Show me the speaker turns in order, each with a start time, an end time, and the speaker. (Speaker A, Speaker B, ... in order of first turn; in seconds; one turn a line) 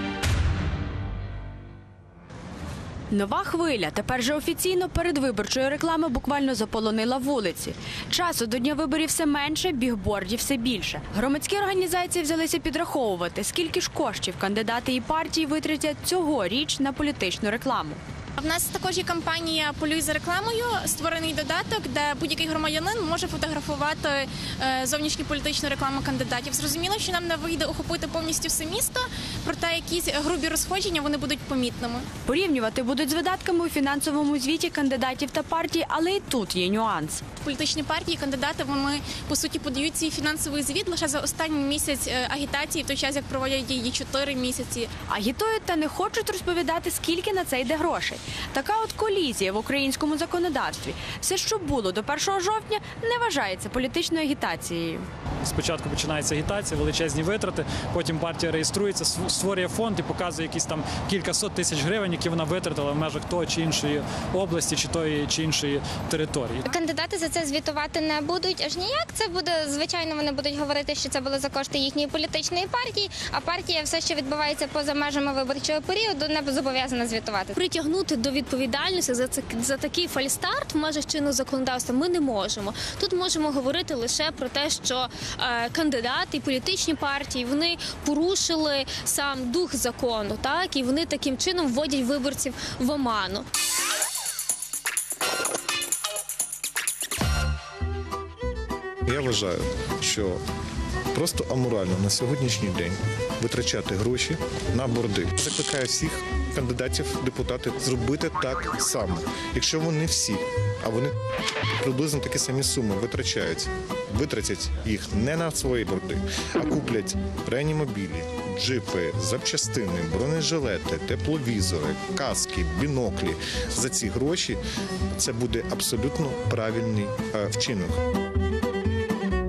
Speaker A: 3.1-18.0
Speaker B: 18.4-32.1
Speaker A: 32.2-37.2
Speaker B: 37.4-44.9
Speaker A: 45.1-55.0
Speaker C: 55.4-66.7
Speaker D: 66.7-77.6
Speaker E: 77.5-93.5
Speaker F: 99.1-100.4
Speaker F: 101.1-111.1
Speaker F: 111.8-124.6
Speaker F: 125.2-128.0